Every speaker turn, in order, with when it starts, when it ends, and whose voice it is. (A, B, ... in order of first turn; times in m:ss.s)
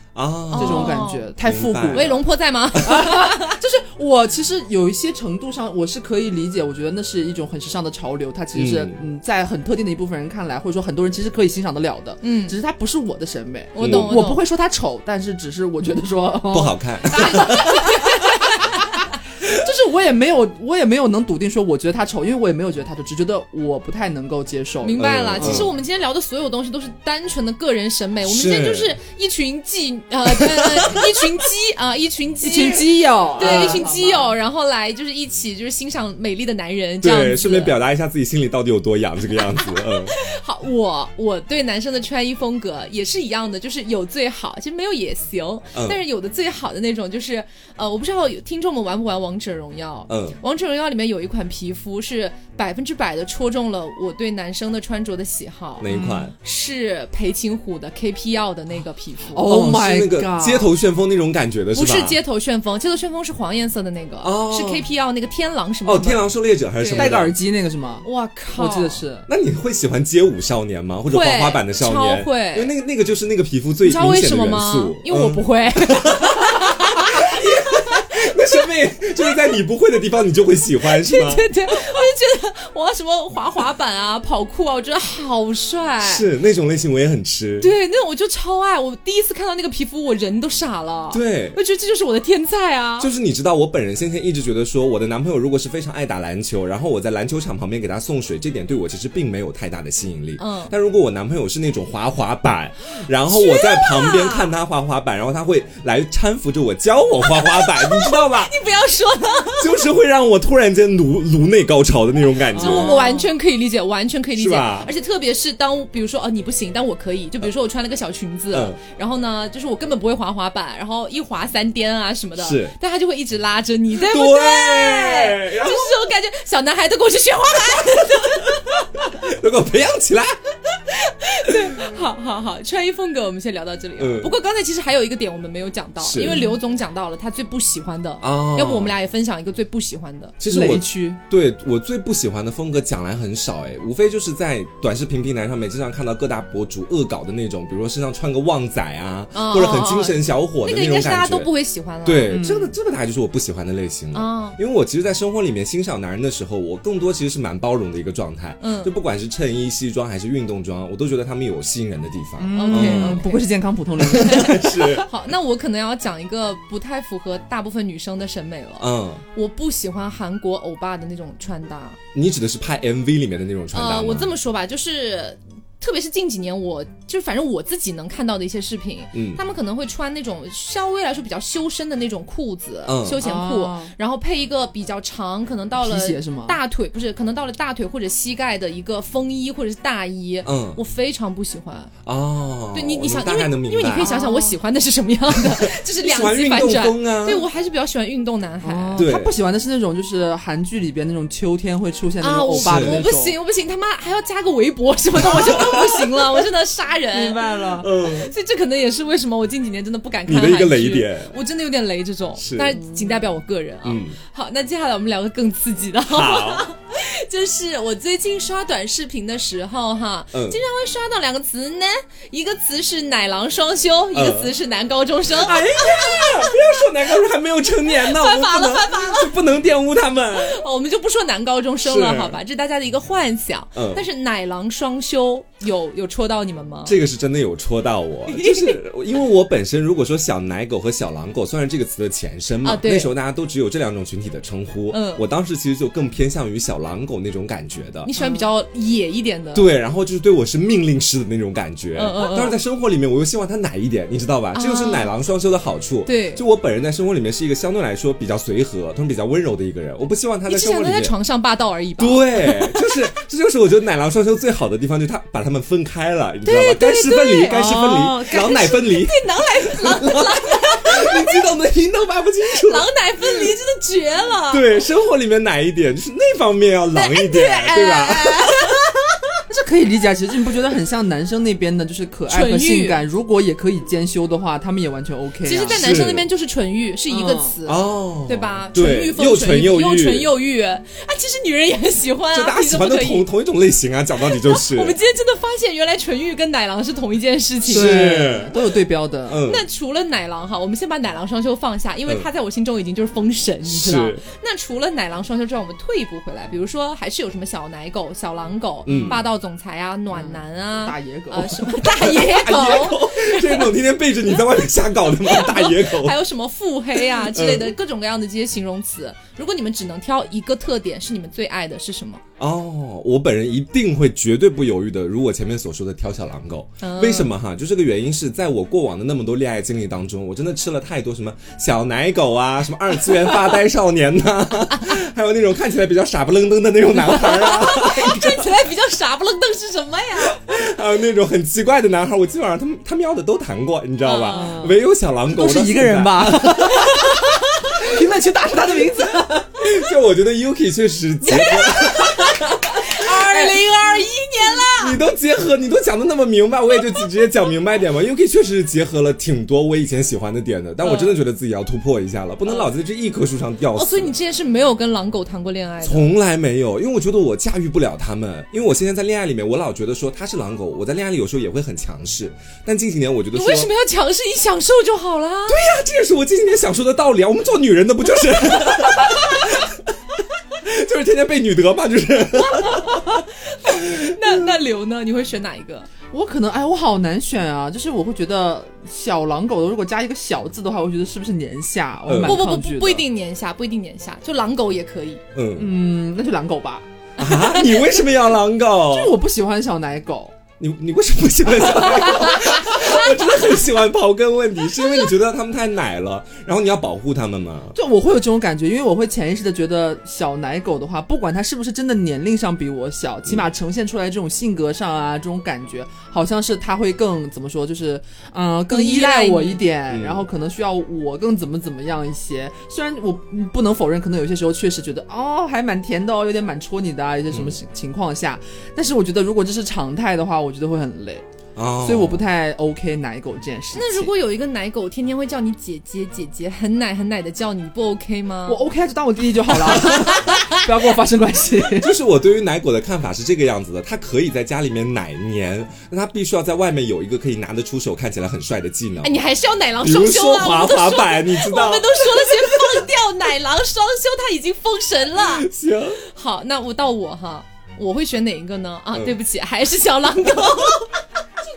0:00.1-0:02.2 A
0:00.5-0:01.3 B
0:00.6-0:02.2 C
0:01.9-0:03.6 B
0:02.8-0:25.7 C
0:08.5-0:09.0 A
0:12.2-0:12.6 B
0:13.7-0:14.4 B
0:13.8-0:14.1 A
0:16.5-0:17.9 A
0:17.1-0:19.1 B
0:24.8-0:37.8 B
0:25.0-0:25.7 A
0:28.2-0:29.0 A
0:30.3-0:31.3 A
0:32.4-0:34.3 C
0:33.4-0:33.8 A
0:37.0-0:40.1 A
0:39.4-0:55.9 B
0:45.7-0:46.0 A
0:50.1-0:50.4 A
0:55.8-0:56.3 A
0:55.9-0:56.3 C
0:56.4-0:59.5 B
0:59.3-1:00.7 C
0:59.4-1:02.2 A
1:01.7-1:06.2 B
1:04.2-1:04.8 A
1:05.8-1:07.3 A
1:06.8-1:07.2 B
1:06.9-1:09.3 C
1:08.0-1:09.0 B
1:09.3-1:21.4 A
1:11.1-1:12.7 B
1:13.8-1:18.3 B
1:20.8-1:26.2 B
1:26.0-1:27.7 A
1:27.6-1:33.1 B
1:31.1-1:31.6 A
1:33.0-1:48.5 A
1:40.4-1:40.7 B
1:43.3-1:44.5 B
1:47.3-1:49.8 B
1:49.6-1:53.0 A
1:52.5-1:53.3 C
1:52.5-2:09.0 B
1:54.3-1:54.9 A
1:58.5-1:58.8 A
2:02.4-2:02.7 A
2:03.9-2:06.0 A
2:09.1-2:10.4 A
2:10.8-2:20.4 B
2:14.0-2:14.3 A
2:16.0-2:16.4 A
2:18.2-2:18.9 A
2:20.4-2:31.5 A
2:20.4-2:21.2 C
2:29.3-2:32.4 B
2:32.0-2:43.3 A
2:32.3-2:32.7 C
2:34.1-2:34.6 B
2:38.6-2:38.9 B
2:42.4-2:45.0 C
2:42.5-2:43.5 B
2:44.0-2:45.1 A
2:44.1-2:52.0 B
2:48.8-2:49.2 A
2:52.1-2:54.3 A
2:53.7-3:11.9 B
2:59.1-2:59.4 A
3:02.8-3:03.2 A
3:03.2-3:03.9 C
3:05.8-3:06.6 C
3:10.4-3:10.8 A
3:12.0-3:14.1 A
3:12.7-3:19.1 B
3:14.0-3:14.6 C
3:15.5-3:17.4 A
3:18.6-3:23.4 C
3:19.0-3:19.3 A
3:22.2-3:46.6 B
3:22.6-3:23.0 A
3:25.2-3:26.2 A
3:27.1-3:27.9 C
3:27.8-3:28.3 A
3:30.2-3:31.3 A
3:32.4-3:32.8 A
3:33.8-3:34.2 A
3:36.1-3:36.6 A
3:40.3-3:40.6 A
3:44.1-3:44.5 A
3:45.4-3:50.6 A
3:47.8-3:49.3 B
3:50.3-3:57.0 B
3:51.8-3:52.4 A
3:53.7-3:54.0 A
3:56.8-4:08.1 A
3:58.3-3:58.8 B
4:02.6-4:03.1 B
4:04.9-4:05.2 B
4:08.0-4:09.7 B
4:08.2-4:08.4 C
4:09.5-4:21.1 A
4:12.0-4:12.6 B
4:14.5-4:15.1 B
4:16.0-4:16.4 B
4:20.5-4:23.0 B
4:22.0-4:33.5 A
4:26.4-4:31.5 B
4:27.5-4:28.5 C
4:32.4-4:34.8 B
4:34.5-4:38.7 A
4:36.9-4:39.0 B
4:39.5-4:46.0 C
4:42.3-4:43.0 B
4:45.4-4:53.3 B
4:45.6-4:46.3 A
4:47.1-4:47.5 C
4:47.6-4:50.3 A
4:52.3-4:55.0 A
4:54.3-4:58.3 B
4:57.7-4:58.5 A
4:57.7-4:59.4 C
4:59.3-4:59.6 A
4:59.4-5:13.7 B
5:03.6-5:04.2 A
5:08.8-5:09.2 A
5:08.9-5:09.2 C
5:10.1-5:11.7 C
5:11.8-5:16.2 A
5:15.2-5:22.2 B
5:17.1-5:17.7 A
5:22.4-5:38.5 A
5:26.8-5:27.3 B
5:36.9-5:40.4 B
5:40.3-5:46.9 A
5:44.0-5:44.6 B
5:44.3-5:44.8 C
5:45.3-5:49.6 C
5:49.6-5:53.5 A
5:51.3-5:55.0 B
5:51.4-5:51.7 C
5:53.3-5:53.6 C
5:54.8-6:04.1 A
6:00.8-6:01.2 B
6:03.7-6:06.1 B
6:05.8-6:13.7 A
6:13.3-6:15.6 B
6:15.5-6:19.9 A
6:20.6-6:24.5 A
6:22.6-6:25.9 B
6:26.1-6:33.0 C
6:32.0-6:32.4 A
6:32.2-6:35.2 B
6:35.3-6:35.7 A
6:35.6-6:36.8 C
6:37.2-6:39.1 A
6:37.2-6:37.8 B
6:38.9-6:40.3 C
6:40.6-6:47.8 A
6:47.7-7:11.2 C
6:58.7-6:59.6 B
6:59.9-7:00.3 A
7:07.3-7:07.6 A
7:11.6-7:12.2 A
7:11.8-7:14.1 C
7:13.7-7:18.6 B
7:18.5-7:21.9 C
7:19.7-7:20.6 B
7:21.8-7:29.2 A
7:29.0-7:35.5 B
7:29.8-7:32.8 A
7:35.2-7:36.0 A
7:36.0-7:41.0 B